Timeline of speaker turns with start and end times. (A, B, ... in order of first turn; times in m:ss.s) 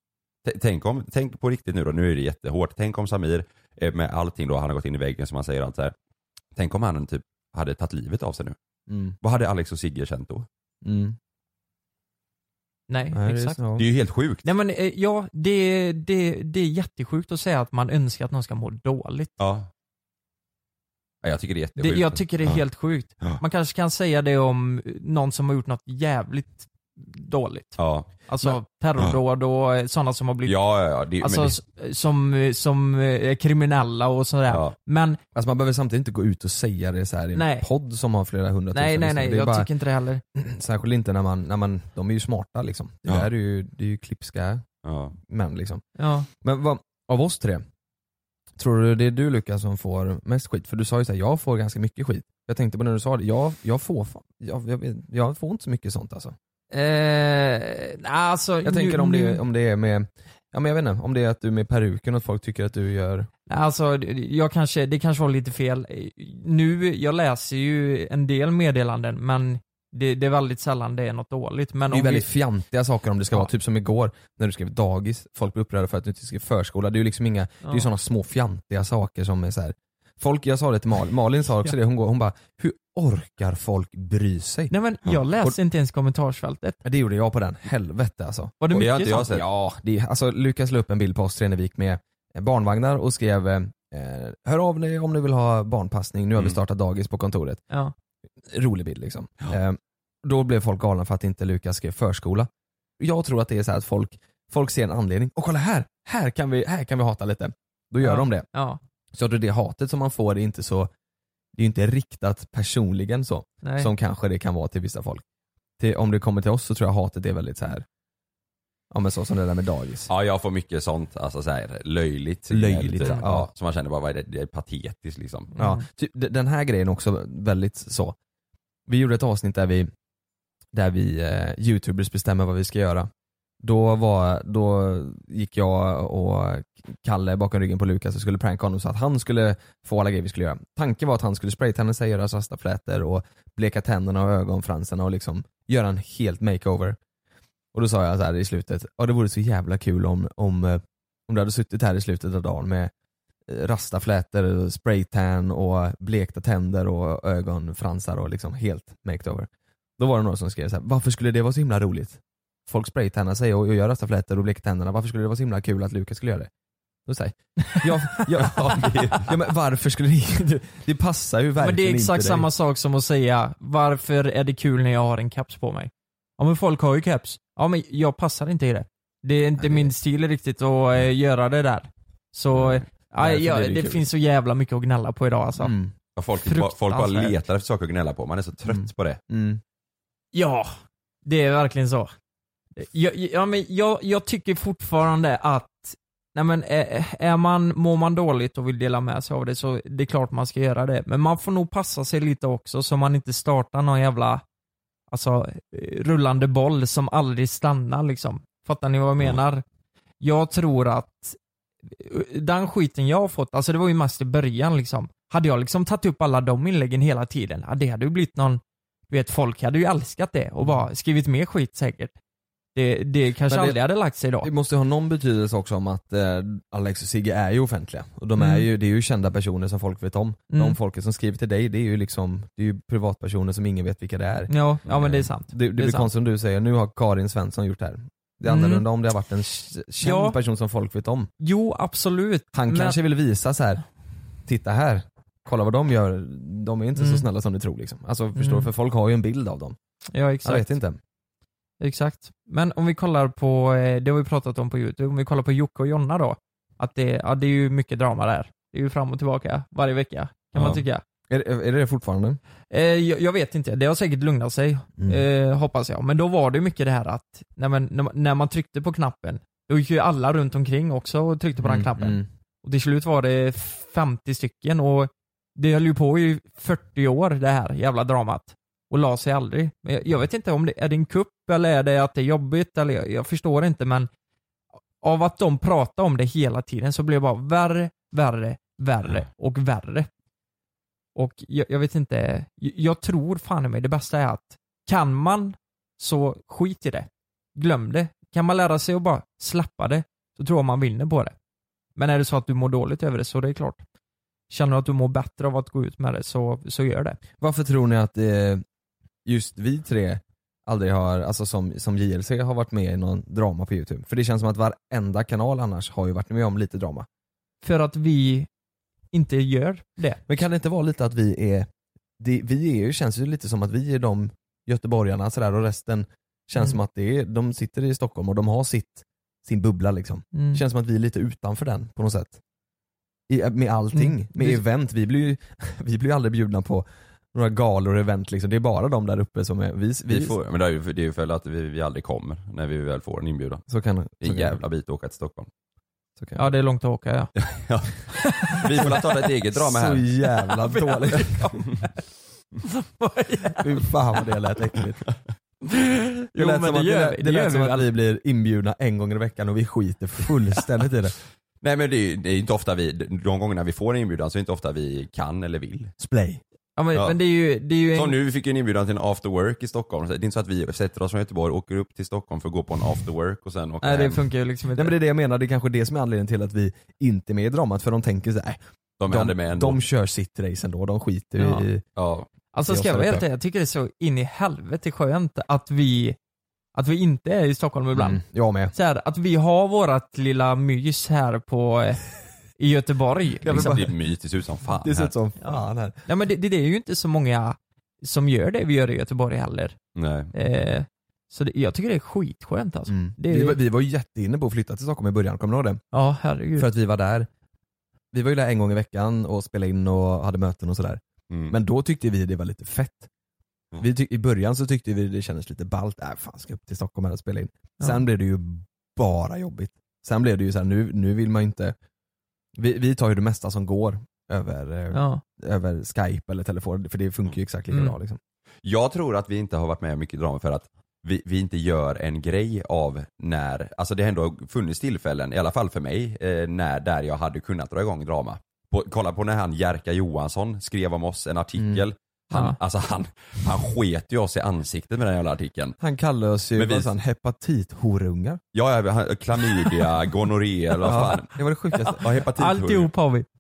0:00.4-0:05.9 A
0:06.6-0:08.5 A
0:08.9-0:09.2 B
0:09.2-0:10.4 A
0:10.8-0:11.2 B
0:12.9-0:13.6 C
0:13.1-0:13.8 B
0:13.8-0:14.4 A
0:14.4-0:19.3 C
0:19.4-0:19.7 A
0:21.2-0:22.6 A
0:21.8-0:30.6 C
0:27.8-0:28.1 A
0:30.4-0:31.5 A
0:31.2-0:35.2 C
0:35.3-0:39.7 B
0:37.3-0:37.6 C
0:38.7-0:40.2 C
0:40.3-0:44.6 B
0:44.8-0:45.1 A
0:45.2-0:45.8 B
0:46.0-0:46.3 C
0:46.4-0:47.6 B
0:48.6-0:56.3 B
0:56.7-0:59.4 C
0:58.6-1:03.3 B
1:03.5-1:12.3 C
1:11.9-1:24.7 B
1:24.7-1:26.8 C
1:26.8-1:28.6 B
1:28.6-1:29.3 C
1:28.7-1:29.4 A
1:29.2-1:37.6 B
1:38.5-1:42.5 B
1:43.0-1:48.4 B
1:48.0-1:48.8 C
1:49.1-1:50.9 B
1:51.5-1:55.2 B
1:53.6-1:53.9 C
1:55.8-1:57.8 B
1:58.9-2:00.1 B
2:00.1-2:05.5 A
2:02.5-2:03.5 B
2:05.6-2:05.8 C
2:05.6-2:08.1 B
2:08.9-2:09.9 B
2:10.7-2:13.1 B
2:13.6-2:27.0 B
2:27.7-2:32.9 B
2:33.5-2:46.5 B
2:47.0-2:52.5 B
2:48.6-2:49.3 A
2:51.6-3:05.7 C
3:02.5-3:04.0 B
3:05.6-3:05.9 B
3:06.2-3:09.2 A
3:06.4-3:07.3 C
3:08.6-3:09.6 B
3:10.3-3:10.7 C
3:11.2-3:12.1 C
3:12.8-3:24.4 C
3:25.1-3:29.6 C
3:30.2-3:31.4 C
3:32.0-3:42.1 C
3:42.8-3:44.5 C
3:43.5-3:43.8 B
3:44.4-4:01.3 B
3:48.4-3:48.6 C
3:50.5-3:50.8 C
3:54.5-3:56.1 C
3:58.5-3:58.8 C
4:00.0-4:00.4 C
4:01.4-4:03.0 C
4:02.5-4:03.8 B
4:04.4-4:09.8 B
4:07.0-4:07.2 C
4:08.4-4:08.7 C
4:10.1-4:10.7 C
4:10.4-4:11.0 B
4:11.8-4:21.0 C
4:21.3-4:22.4 B
4:22.7-4:44.1 C
4:25.0-4:25.2 B
4:31.6-4:32.3 B
4:45.0-4:50.1 C
4:51.1-5:01.3 C
5:02.0-5:03.8 C
5:04.5-5:07.2 C
5:07.4-5:08.6 B
5:09.2-5:17.0 B
5:17.6-5:18.5 C
5:19.1-5:20.2 C
5:20.3-5:21.7 B
5:22.2-5:32.4 B
5:30.3-5:30.6 C
5:33.3-5:40.4 B
5:33.9-5:34.6 C
5:40.1-5:43.6 A
5:43.7-5:44.6 B
5:44.2-5:45.5 A
5:46.2-5:46.5 B
5:46.3-5:47.3 C
5:47.4-5:47.9 A
5:48.6-5:50.0 A
5:49.5-5:51.6 B
5:50.6-5:51.5 C
5:52.7-5:53.6 C
5:53.6-5:55.0 B
5:56.3-5:57.9 C
5:56.4-6:01.1 B
6:01.6-6:05.9 A
6:06.0-6:06.4 B
6:06.8-6:08.2 C
6:07.9-6:14.2 A
6:13.8-6:15.0 C
6:14.8-6:21.8 B
6:19.0-6:19.8 A
6:21.4-6:21.6 C
6:22.0-6:22.3 A
6:22.5-6:26.2 C
6:22.6-6:23.2 B
6:26.8-6:28.2 C
6:27.9-6:28.7 B
6:28.7-6:32.0 C
6:32.6-6:33.8 C
6:33.4-6:33.9 B
6:33.5-6:35.1 A
6:34.7-6:36.0 B
6:35.4-6:39.8 C
6:40.0-6:40.3 A
6:40.3-6:43.6 C
6:42.9-6:45.8 B
6:45.9-6:46.7 C
6:46.6-6:47.3 B
6:48.1-6:53.1 B
6:53.8-7:01.7 B
7:02.6-7:08.2 B
7:04.9-7:05.2 C
7:08.6-7:25.8 A
7:21.6-7:21.8 B
7:25.8-7:28.4 B
7:26.6-7:26.9 A
7:28.5-7:31.3 A
7:30.8-7:32.0 B
7:31.8-7:33.2 C
7:31.9-7:32.9 A